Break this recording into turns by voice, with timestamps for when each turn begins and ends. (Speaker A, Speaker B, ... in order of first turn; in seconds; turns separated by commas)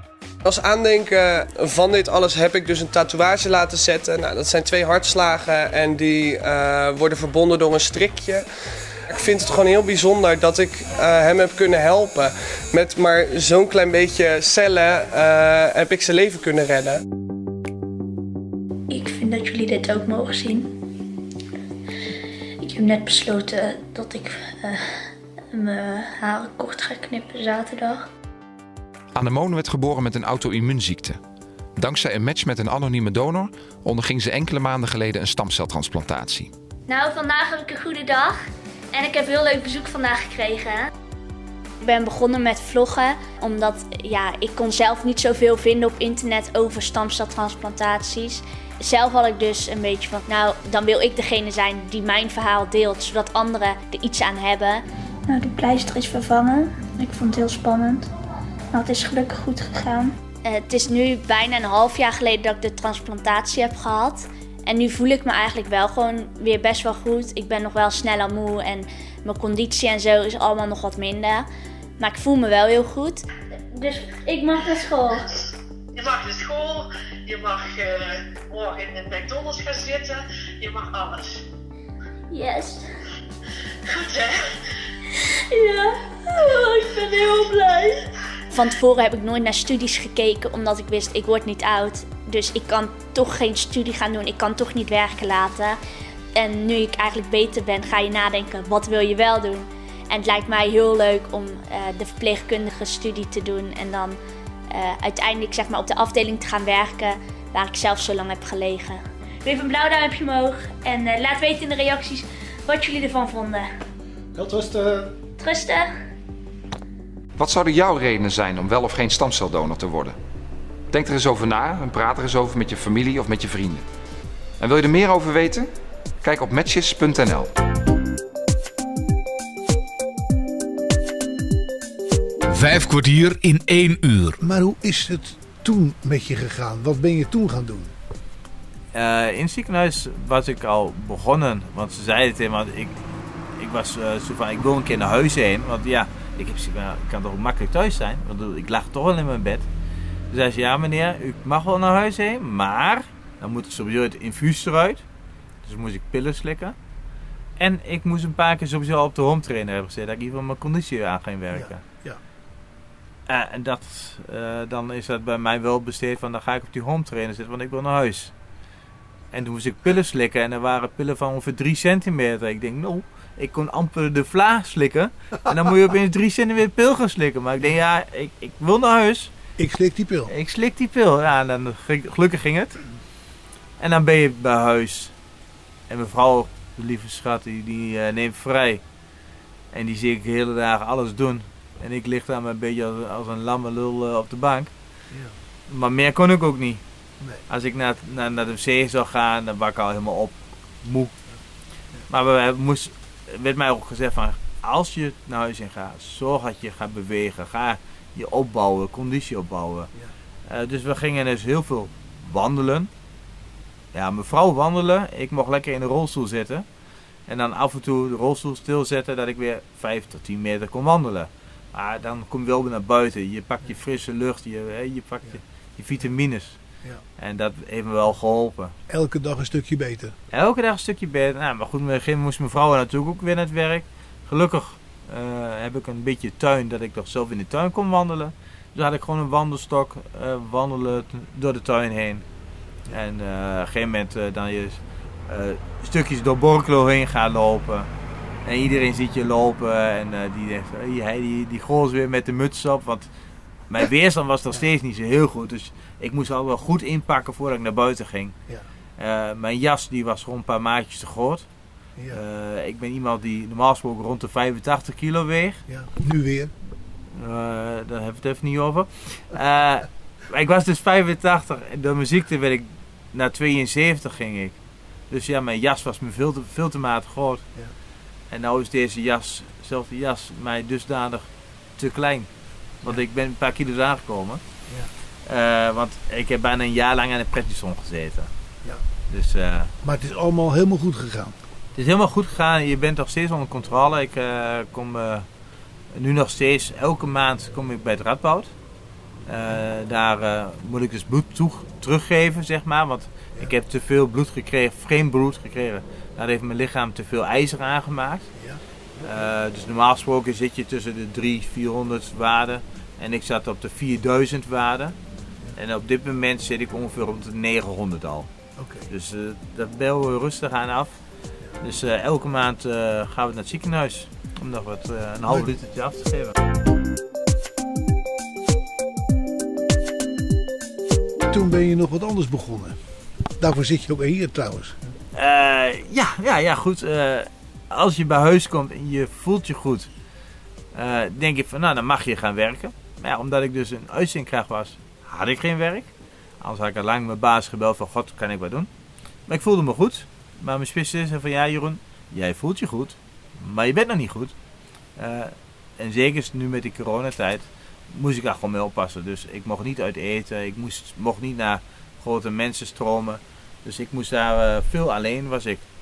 Speaker A: 0.4-8.4, Speaker A: 9.1-17.0, Speaker B: 18.9-20.7, Speaker B: 22.6-24.9, Speaker B: 25.5-28.0, Speaker C: 29.1-31.2, Speaker C: 31.8-36.5, Speaker B: 36.9-38.4, Speaker B: 38.9-40.8, Speaker B: 41.8-58.1, Speaker B: 58.7-71.5, Speaker B: 72.0-75.3, Speaker D: 75.9-81.4, Speaker B: 82.3-82.8, Speaker D: 83.9-84.5, Speaker B: 85.5-88.0, Speaker B: 88.5-95.8, Speaker B: 96.3-104.2, Speaker B: 104.7-113.7, Speaker E: 114.4-115.1, Speaker B: 115.4-115.9, Speaker C: 117.4-120.2, Speaker C: 120.9-123.8, Speaker C: 124.6-125.7, Speaker C: 126.2-127.5, Speaker F: 132.5-134.4, Speaker E: 134.4-137.9, Speaker G: 138.9-142.9, Speaker G: 143.6-149.7, Speaker G: 150.3-155.0, Speaker G: 155.6-156.7, Speaker G: 157.6-161.8, Speaker E: 161.5-162.2, Speaker G: 163.3-168.3, Speaker G: 169.3-179.3, Speaker E: 179.6-180.3, Speaker G: 180.3-182.8, Speaker G: 183.8-185.1, Speaker G: 185.9-188.8, Speaker G: 189.7-194.7, Speaker G: 195.7-196.8, Speaker G: 197.5-201.1, Speaker G: 202.1-209.9, Speaker G: 210.5-212.9, Speaker G: 213.9-216.6, Speaker G: 217.3-226.6, Speaker G: 227.2-228.7, Speaker E: 228.9-230.1, Speaker G: 230.3-242.2, Speaker G: 242.9-247.9, Speaker G: 248.4-253.1, Speaker G: 253.7-258.3, Speaker G: 259.0-261.4, Speaker G: 262.1-265.6, Speaker E: 265.7-266.5, Speaker G: 267.1-274.6, Speaker G: 275.1-277.4, Speaker G: 278.3-282.3, Speaker G: 282.8-284.4, Speaker G: 285.3-288.3, Speaker G: 289.1-289.7, Speaker E: 289.8-291.3, Speaker G: 291.7-295.2, Speaker G: 295.9-298.5, Speaker G: 299.3-308.3, Speaker G: 309.0-314.9, Speaker G: 315.6-318.3, Speaker E: 318.6-318.9, Speaker G: 318.9-320.9, Speaker G: 321.6-326.3, Speaker E: 331.3-332.7, Speaker E: 333.4-334.8, Speaker G: 335.1-339.9, Speaker G: 340.7-345.9, Speaker G: 346.4-348.7, Speaker G: 349.3-354.3, Speaker G: 355.0-365.6